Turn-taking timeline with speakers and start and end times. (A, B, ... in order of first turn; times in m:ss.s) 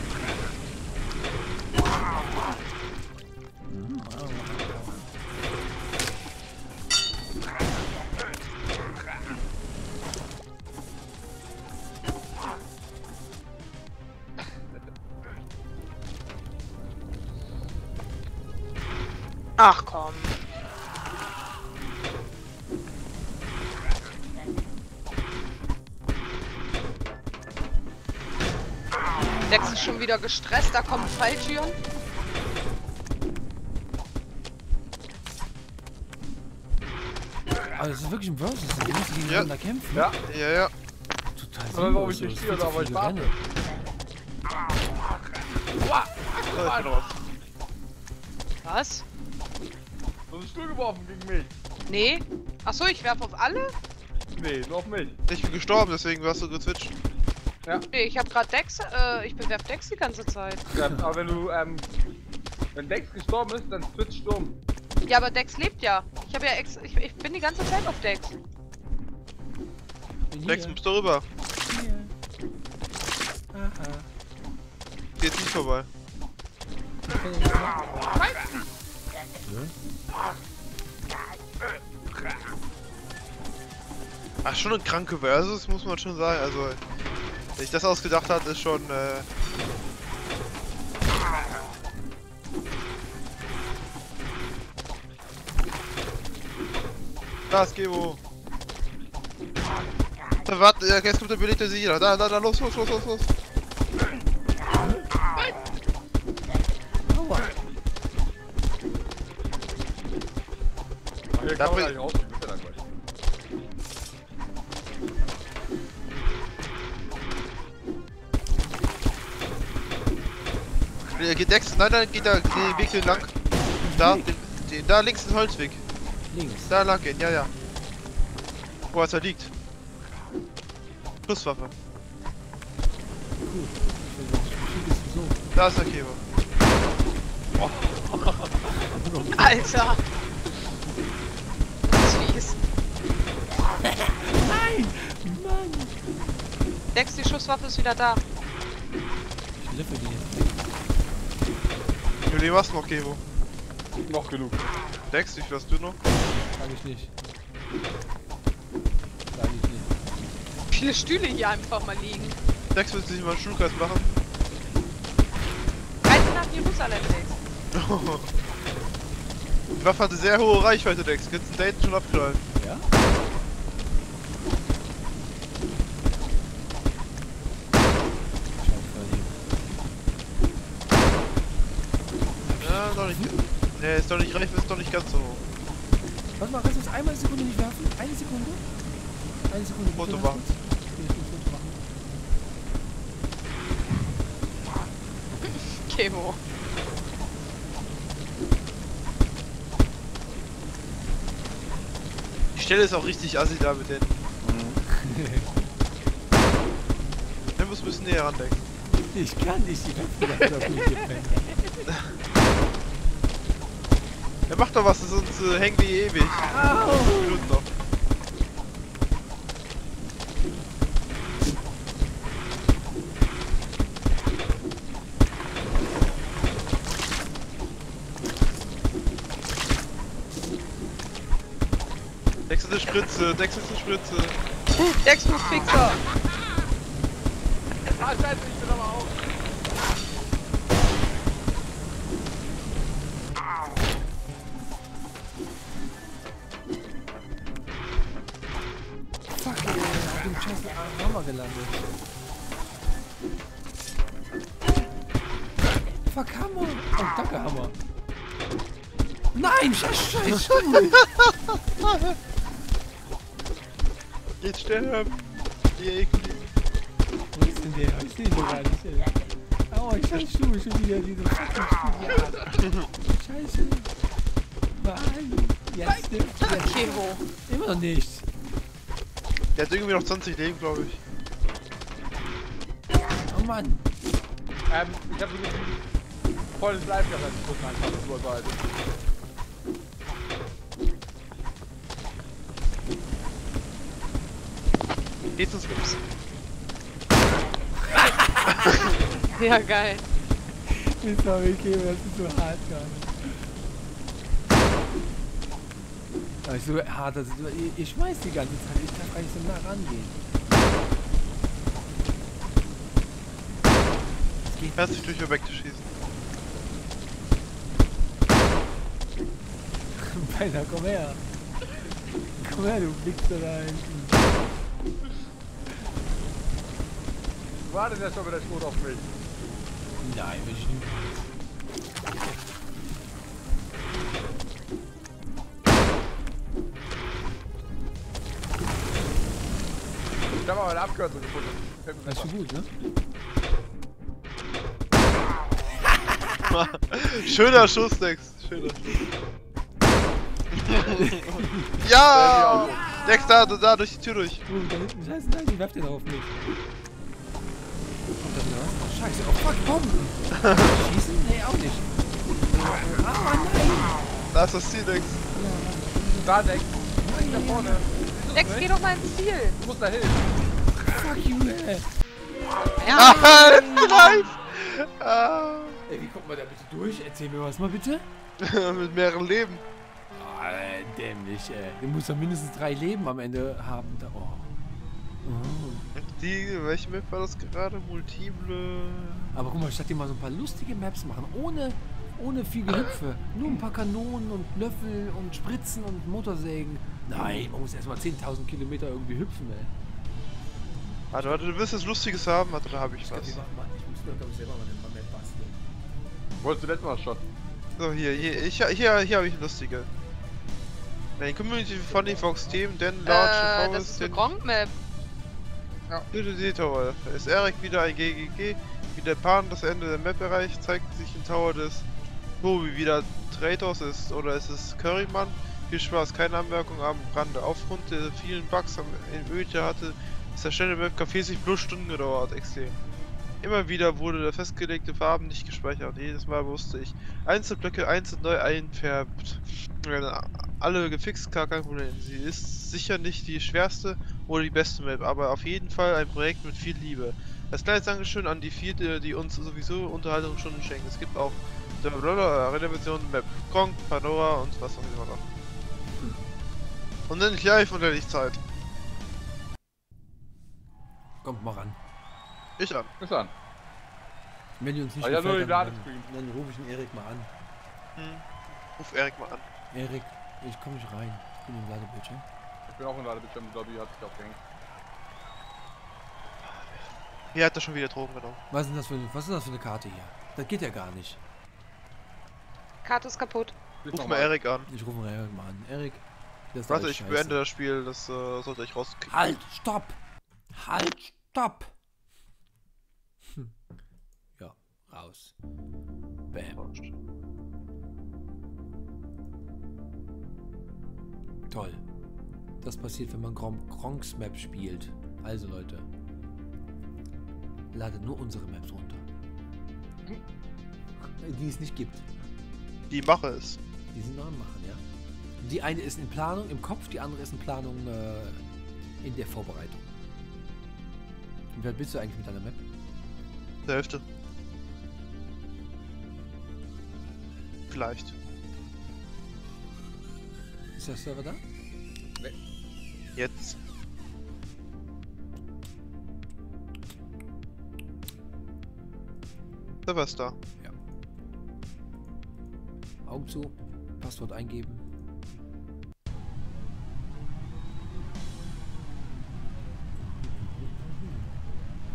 0:03.7-0:05.1 A
0:19.6-0:20.4 B
0:29.5-0:31.8 B
0:37.7-0:40.1 A
0:39.2-0:39.5 C
0:39.9-0:40.2 D
0:40.2-0:40.7 C
0:41.3-0:43.3 A
0:41.7-0:43.3 D
0:45.7-0:47.0 D
0:46.5-0:47.1 C
0:48.6-0:49.0 B
0:50.3-0:51.5 D
0:51.9-0:53.7 B
0:54.3-0:55.2 D
0:55.3-0:56.9 C
0:57.9-1:00.6 B
1:00.7-1:01.8 D
1:02.7-1:04.6 D
1:05.1-1:08.3 B
1:10.3-1:10.8 A
1:10.4-1:11.2 C
1:11.6-1:12.1 A
1:13.5-1:14.1 A
1:15.2-1:15.9 C
1:17.1-1:18.0 A
1:18.1-1:18.6 D
1:19.4-1:19.7 A
1:24.4-1:26.8 C
1:27.6-1:29.3 C
1:37.5-1:38.2 C
1:40.4-1:43.3 C
1:44.7-1:45.0 A
1:47.0-1:47.6 A
1:51.3-1:52.8 D
1:51.5-1:51.9 C
2:01.2-2:03.3 C
2:03.8-2:04.3 A
2:04.0-2:05.8 C
2:06.3-2:06.7 A
2:06.7-2:07.5 C
2:08.9-2:09.5 C
2:11.3-2:11.7 C
2:13.4-2:15.4 A
2:15.5-2:16.2 C
2:17.6-2:18.6 D
2:18.7-2:19.7 A
2:19.4-2:20.0 B
2:21.9-2:22.6 B
2:23.8-2:26.1 A
2:26.9-2:28.2 B
2:29.6-2:30.6 A
2:32.2-2:33.2 C
2:34.1-2:34.7 D
2:35.1-2:36.0 C
2:36.5-2:37.1 A
2:39.3-2:40.0 A
2:40.7-2:42.4 B
2:42.7-2:44.1 C
2:46.1-2:47.4 B
2:47.7-2:48.3 C
2:49.7-2:52.4 C
2:52.6-2:52.9 A
2:58.6-2:59.4 A
3:02.4-3:03.5 A
3:02.6-3:05.4 C
3:06.4-3:08.6 A
3:09.5-3:11.8 A
3:09.9-3:10.4 C
3:15.4-3:16.4 B
3:22.5-3:24.2 C
3:24.4-3:24.8 D
3:24.8-3:25.5 A
3:27.6-3:28.6 C
3:29.1-3:31.4 A
3:34.5-3:37.7 C
3:36.4-3:37.5 A
3:52.5-3:54.4 C
3:55.0-3:56.0 B
3:57.9-3:59.2 D
4:09.3-4:11.8 A
4:16.1-4:17.8 A
4:19.3-4:21.1 A
4:21.1-4:22.2 C
4:24.4-4:25.2 C
4:25.8-4:26.4 C
4:27.3-4:33.9 A
4:32.6-4:32.9 C
4:34.8-4:38.2 A
4:36.4-4:37.3 B
4:39.6-4:41.0 C
4:43.3-4:43.8 A
4:44.7-4:45.8 D
4:46.6-4:48.6 D
4:55.4-4:56.0 C
4:58.2-5:00.1 B
5:00.7-5:03.4 A
5:06.4-5:10.2 A
5:14.4-5:15.1 A
5:14.8-5:15.8 C
5:19.9-5:21.2 A
5:22.3-5:24.3 A
5:27.6-5:29.1 D
5:30.0-5:31.3 A
5:40.3-5:42.3 D
5:42.0-5:42.7 A
5:46.5-5:48.9 C
5:48.8-5:49.1 A
5:50.5-5:54.4 C
5:50.7-5:51.9 A
5:52.1-5:52.8 D
5:52.4-5:53.6 A
5:54.5-5:56.3 A
5:58.2-6:01.9 A
6:00.3-6:00.8 C
6:02.4-6:04.0 A
6:04.3-6:05.2 C
6:05.3-6:07.8 A
6:06.2-6:08.7 D
6:08.3-6:09.6 B
6:09.6-6:10.3 D
6:10.9-6:11.8 A
6:12.8-6:13.9 B
6:12.9-6:14.0 A
6:12.9-6:15.8 C
6:15.9-6:18.0 A
6:18.4-6:19.6 C
6:20.1-6:24.5 A
6:25.2-6:25.9 A
6:25.9-6:29.4 C
6:29.3-6:39.7 A
6:41.1-6:43.4 C
6:43.0-6:45.6 A
6:46.4-6:47.2 D
6:47.8-6:49.9 C
6:48.1-6:48.4 A
6:51.2-6:54.3 C
6:51.9-6:52.6 A
6:53.0-6:54.7 B
6:56.1-7:01.8 C
7:02.4-7:12.8 C
7:13.4-7:35.2 C
7:37.1-7:38.4 C
7:41.2-7:41.8 A
7:42.6-7:42.9 C
7:43.0-7:43.3 D
7:44.6-7:47.3 A
7:45.0-7:46.1 D
7:48.0-7:48.2 C
7:48.8-7:49.5 C
7:49.7-7:52.2 A
7:52.7-7:54.4 D
7:56.4-7:56.8 C
7:57.3-7:58.4 C
7:58.5-8:01.2 A
8:02.8-8:03.5 B
8:03.8-8:04.3 D
8:03.9-8:04.7 C
8:04.7-8:07.4 A
8:06.7-8:09.1 C
8:09.1-8:10.0 A
8:10.5-8:11.7 A
8:14.4-8:15.3 A
8:16.3-8:16.6 A
8:16.6-8:17.0 C
8:21.5-8:21.8 A
8:22.6-8:25.9 A
8:27.7-8:29.0 A
8:31.0-8:32.0 A
8:32.9-8:33.6 C
8:33.9-8:34.8 A
8:35.4-8:38.4 A
8:39.0-8:39.8 A
8:41.5-8:42.6 A
8:43.6-8:44.0 C
8:47.7-8:48.1 C
8:50.8-8:51.4 A
8:53.2-8:53.6 C
8:59.8-9:00.4 C
9:03.0-9:04.8 A
9:10.0-9:11.3 A